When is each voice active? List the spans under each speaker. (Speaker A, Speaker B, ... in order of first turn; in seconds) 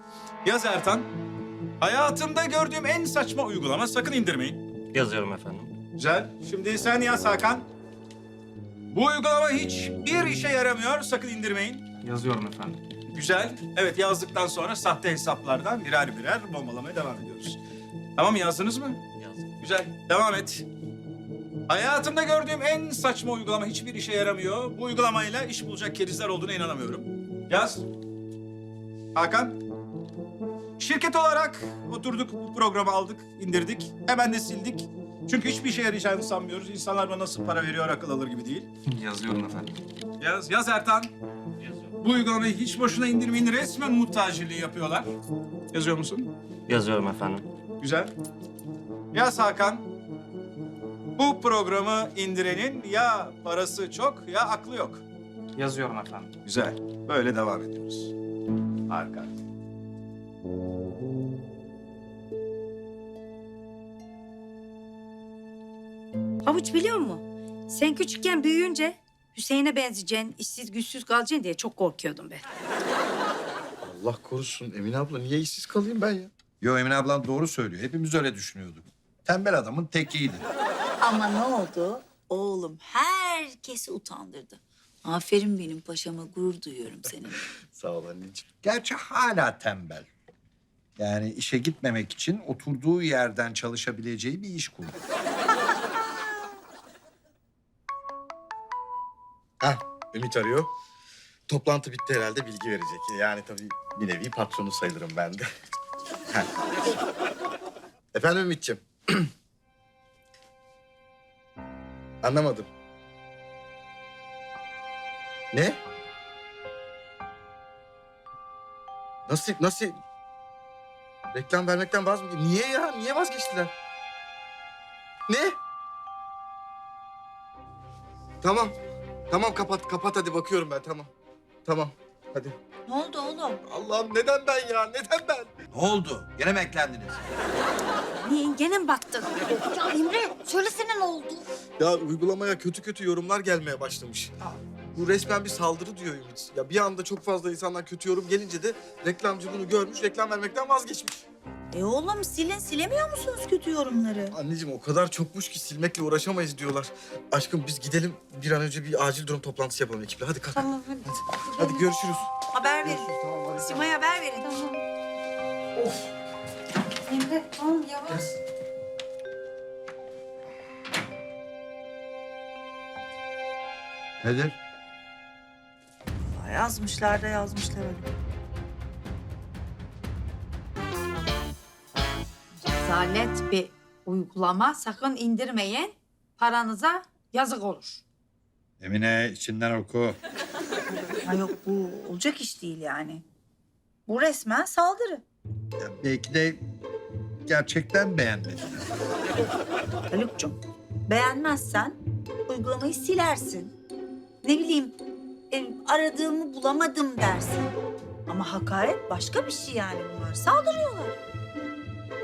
Speaker A: 0.4-1.1, 1.8-4.6, 5.9-7.7, 8.9-11.9, 13.1-17.6, 18.1-19.0, 19.6-20.7, 21.7-27.9, 29.1-29.6, 30.8-38.7, 40.2-41.1, 42.0-45.1, 45.7-46.3, 47.8-48.1, 49.1-49.9, 51.2-55.0, 56.4-58.1, 58.9-59.3
Speaker B: 4.9-5.7, 19.1-19.5, 46.7-47.5
Speaker C: 12.0-12.8, 38.9-39.8, 55.5-56.3
Speaker D: 66.4-72.4, 138.1-139.3, 160.6-161.7, 164.4-164.8, 167.1-168.2, 182.7-188.0
Speaker E: 73.8-76.3, 87.7-88.4, 99.6-100.7, 101.5-105.5, 108.1-109.3, 112.2-112.7, 115.5-115.8, 119.3-120.0, 121.3-123.7, 125.3-125.6, 128.4-128.7, 129.3-131.1, 131.6-132.5, 133.6-135.5, 141.8-151.2, 154.3-163.9
Speaker F: 76.6-80.4, 88.6-90.1, 91.0-95.0, 135.7-137.1, 174.2-174.6, 188.8-190.2, 195.8-196.6, 197.4-198.8
Speaker G: 81.0-87.3, 132.9-133.6, 139.6-141.4, 151.7-154.3, 162.5-163.1, 163.9-164.4, 176.5-177.9, 191.2-193.2, 194.1-195.2, 200.1-203.7, 204.4-204.9, 205.5-207.8, 208.3-211.2